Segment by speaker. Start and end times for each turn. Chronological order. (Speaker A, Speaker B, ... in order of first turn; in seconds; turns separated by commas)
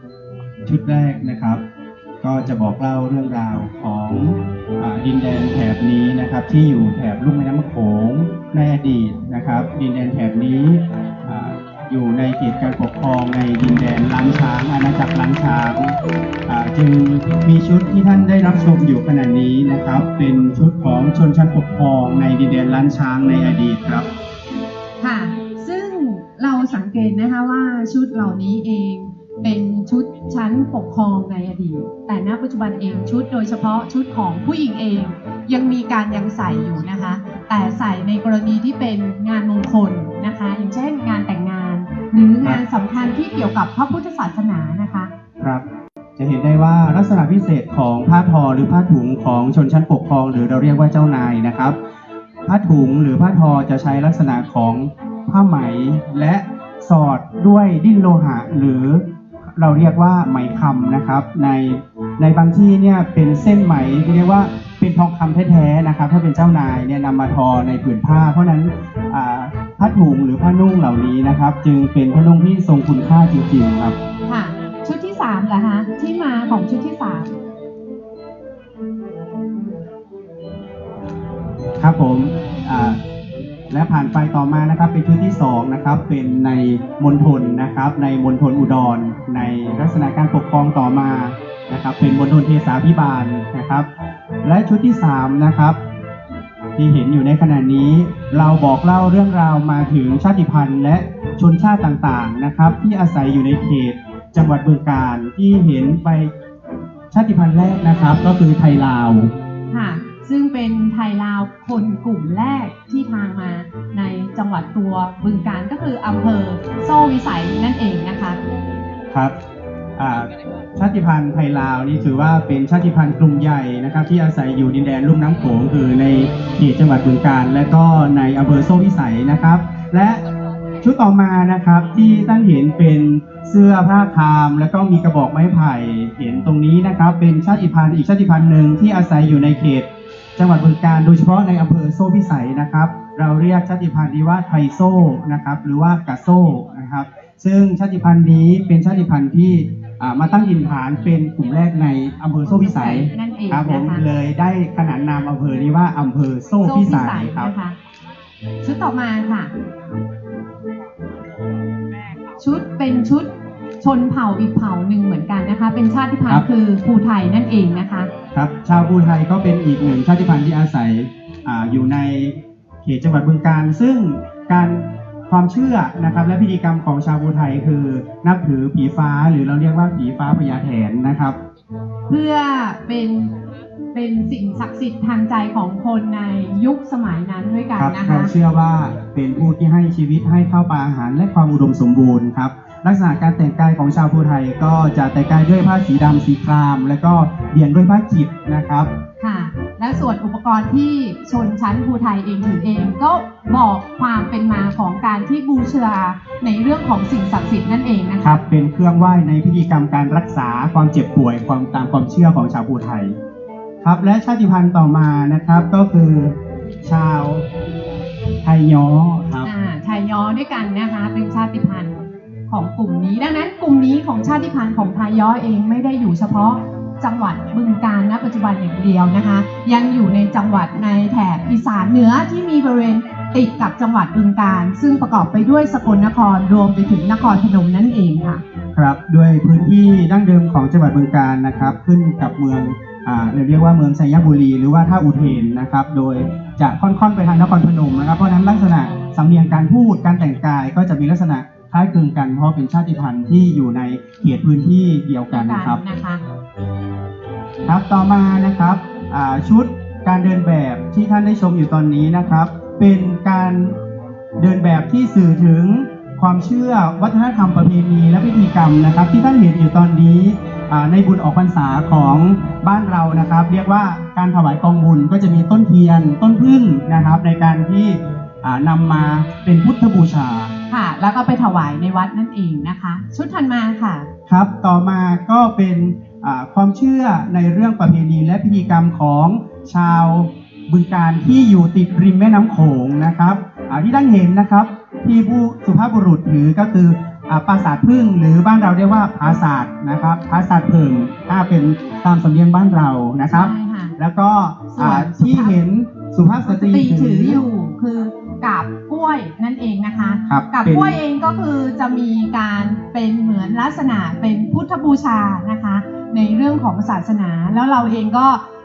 Speaker A: 0.7-1.6, Speaker A: 2.2-16.0, Speaker A: 16.5-24.1, Speaker B: 25.0-45.1, Speaker A: 45.4-45.6, Speaker A: 46.2-51.8, Speaker A: 52.5-59.0, Speaker A: 59.6-73.9, Speaker B: 74.3-77.3, Speaker A: 81.8-83.0, Speaker A: 83.7-93.9, Speaker A: 94.4-95.8, Speaker A: 96.8-106.3, Speaker A: 107.1-109.3, Speaker B: 109.7-118.4, Speaker A: 119.1-119.3, Speaker A: 120.0-130.2, Speaker A: 130.8-157.5, Speaker B: 152.6-154.0, Speaker B: 156.6-157.8, Speaker B: 158.6-159.5, Speaker B: 162.4-163.3, Speaker B: 163.8-168.1, Speaker A: 168.3-181.4, Speaker B: 182.1-183.3, Speaker B: 183.9-188.3, Speaker A: 187.8-198.9, Speaker B: 199.2-208.3, Speaker A: 208.2-213.1, Speaker A: 213.8-217.4, Speaker A: 218.4-219.5, Speaker B: 219.4-221.9, Speaker B: 222.5-238.4, Speaker A: 238.8-255.8, Speaker B: 255.3-256.2, Speaker A: 257.7-263.8, Speaker A: 264.4-280.5, Speaker B: 280.7-284.1, Speaker A: 284.3-307.4, Speaker B: 303.3-303.9, Speaker B: 304.7-305.6, Speaker B: 306.5-318.4, Speaker A: 310.3-311.0